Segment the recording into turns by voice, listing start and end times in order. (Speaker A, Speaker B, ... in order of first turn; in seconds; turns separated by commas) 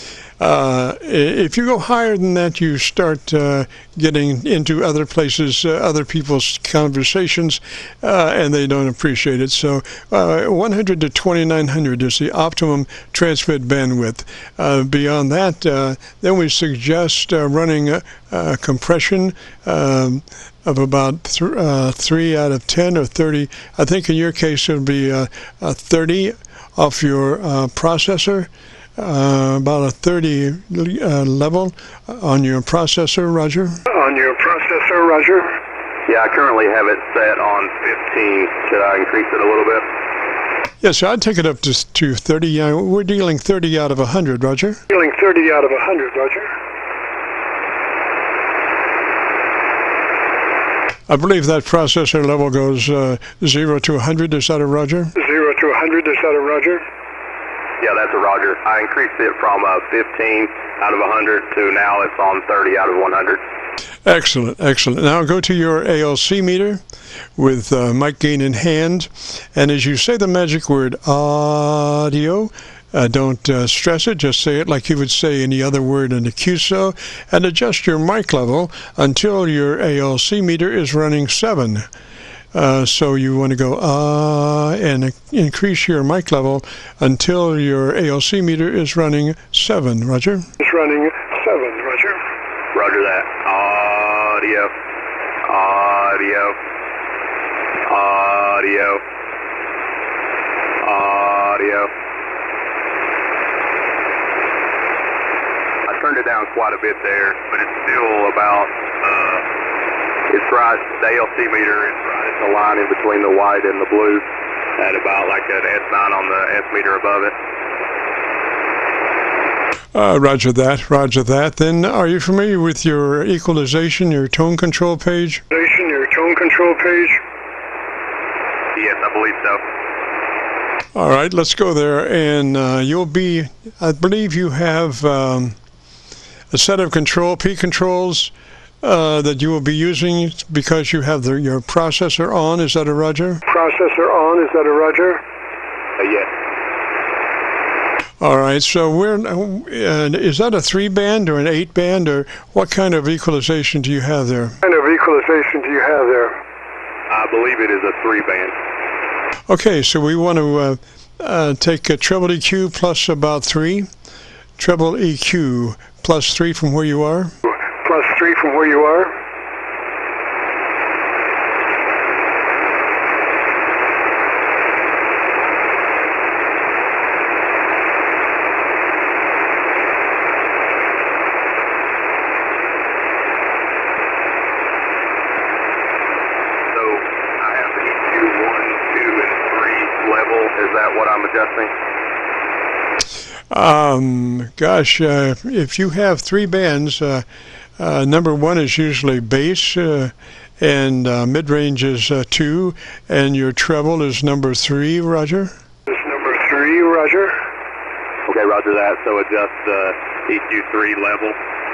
Speaker A: 0.4-33.8, Speaker B: 33.9-35.6, Speaker C: 36.1-39.9, Speaker A: 40.8-44.8, Speaker B: 44.9-46.5, Speaker A: 51.1-55.1, Speaker B: 55.2-56.8, Speaker C: 57.8-63.4, Speaker A: 64.0-66.8, Speaker A: 67.4-81.9, Speaker A: 82.5-90.5, Speaker B: 90.6-92.2, Speaker C: 92.7-94.7, Speaker C: 95.4-96.6, Speaker C: 97.9-99.0, Speaker C: 100.8-101.9, Speaker C: 105.9-109.4, Speaker C: 110.3-114.2, Speaker C: 114.8-117.3, Speaker A: 119.9-125.4, Speaker B: 125.5-127.2, Speaker C: 128.8-129.6, Speaker A: 130.9-135.6, Speaker A: 136.5-143.4, Speaker B: 143.5-145.2, Speaker C: 146.0-146.3, Speaker A: 148.2-154.6, Speaker B: 154.6-156.4, Speaker C: 157.1-158.5, Speaker A: 159.5-163.9, Speaker A: 164.6-167.3, Speaker B: 167.5-169.1, Speaker C: 186.7-191.7, Speaker A: 193.5-197.2, Speaker A: 197.8-205.5, Speaker B: 205.9-207.4, Speaker C: 208.3-211.4